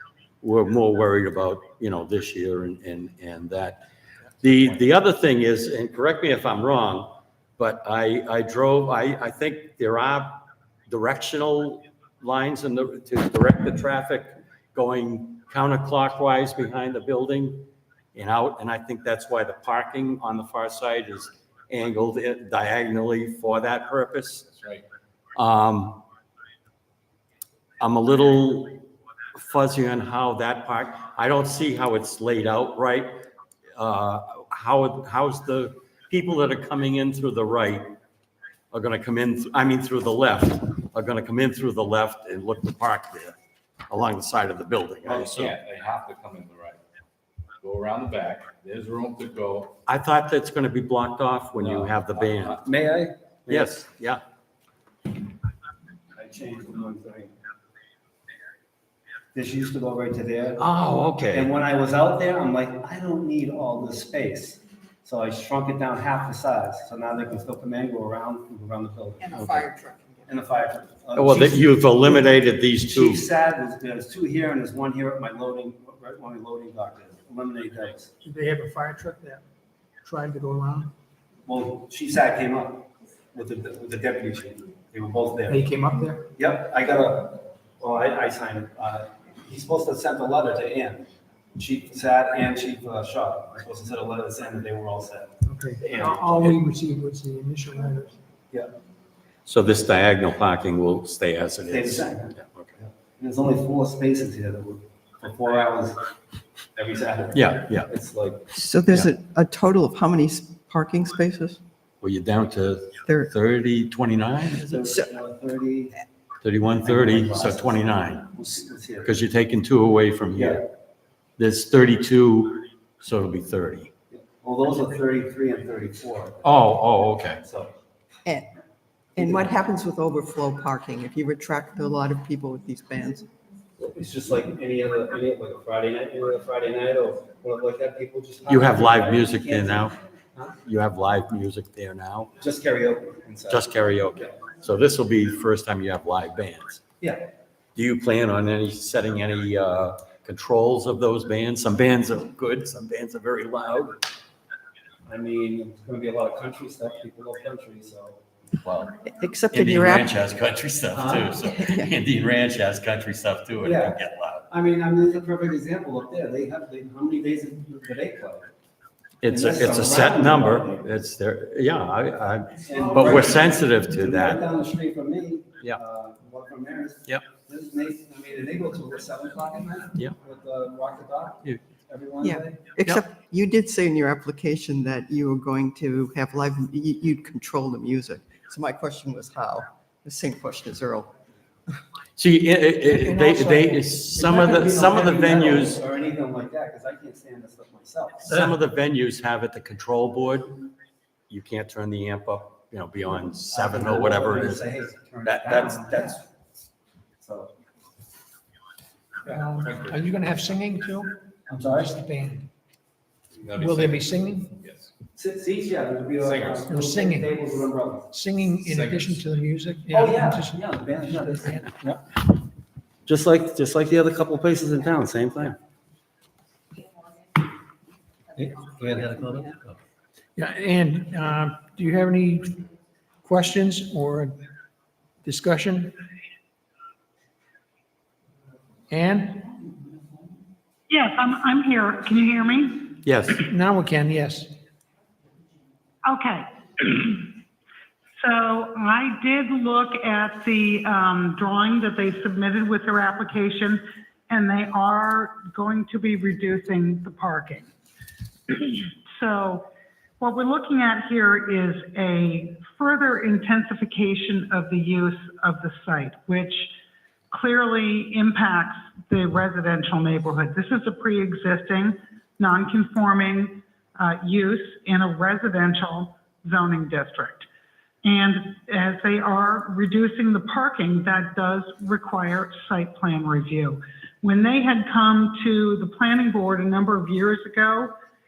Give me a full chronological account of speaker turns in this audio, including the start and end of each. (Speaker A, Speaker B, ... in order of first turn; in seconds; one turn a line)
Speaker A: 0.4-3.8
Speaker A: 4.4-24.4
Speaker B: 24.5-24.8
Speaker A: 25.4-26.0
Speaker A: 27.8-38.0
Speaker A: 38.7-43.4
Speaker A: 43.9-45.5
Speaker B: 45.0-46.8
Speaker B: 47.6-49.8
Speaker A: 49.9-52.6
Speaker B: 51.5-52.5
Speaker C: 52.5-53.7
Speaker A: 53.5-54.2
Speaker C: 56.1-57.3
Speaker C: 59.3-60.6
Speaker A: 60.6-61.5
Speaker C: 61.3-69.7
Speaker D: 69.2-70.3
Speaker C: 70.3-72.3
Speaker A: 71.2-73.2
Speaker C: 72.9-78.1
Speaker E: 78.2-79.4
Speaker E: 80.0-80.9
Speaker C: 81.5-85.7
Speaker E: 85.5-86.2
Speaker C: 86.3-96.5
Speaker E: 95.5-98.2
Speaker A: 99.5-102.8
Speaker C: 101.7-106.0
Speaker C: 106.8-108.5
Speaker A: 107.3-107.9
Speaker D: 108.5-111.6
Speaker A: 112.0-114.8
Speaker D: 113.0-113.3
Speaker C: 114.6-116.0
Speaker A: 116.4-118.3
Speaker C: 116.8-117.8
Speaker C: 118.3-119.2
Speaker A: 119.0-120.7
Speaker C: 120.4-120.6
Speaker A: 121.4-123.9
Speaker C: 124.1-126.5
Speaker A: 126.4-127.4
Speaker C: 127.4-127.7
Speaker D: 129.2-133.3
Speaker C: 133.8-140.6
Speaker A: 138.5-140.0
Speaker A: 140.6-142.3
Speaker C: 142.4-144.3
Speaker A: 143.5-146.8
Speaker A: 147.8-154.0
Speaker C: 155.1-158.2
Speaker A: 158.6-159.0
Speaker D: 159.1-160.1
Speaker A: 159.5-164.5
Speaker C: 160.9-161.4
Speaker D: 161.6-161.9
Speaker C: 163.6-164.0
Speaker C: 164.5-168.5
Speaker A: 169.2-174.4
Speaker C: 169.3-170.9
Speaker C: 172.7-182.7
Speaker D: 182.2-191.1
Speaker A: 192.2-195.8
Speaker E: 193.0-193.9
Speaker C: 194.1-198.5
Speaker A: 198.2-200.7
Speaker A: 201.3-206.2
Speaker C: 203.5-206.3
Speaker C: 207.2-207.5
Speaker E: 209.3-211.2
Speaker C: 211.5-212.0
Speaker E: 211.9-212.5
Speaker B: 213.3-214.9
Speaker E: 213.7-214.5
Speaker C: 215.2-218.1
Speaker B: 216.2-216.7
Speaker E: 216.7-217.3
Speaker E: 218.1-221.6
Speaker B: 218.6-219.2
Speaker C: 219.9-222.2
Speaker C: 223.1-225.6
Speaker C: 228.3-229.8
Speaker E: 230.4-232.6
Speaker E: 233.2-234.4
Speaker E: 235.2-235.9
Speaker E: 238.9-239.4
Speaker F: 240.9-243.0
Speaker A: 243.0-243.4
Speaker E: 243.5-244.5
Speaker F: 246.1-247.3
Speaker F: 248.2-257.7
Speaker F: 258.5-259.7
Speaker F: 260.2-266.7
Speaker F: 267.3-277.5
Speaker F: 278.0-287.9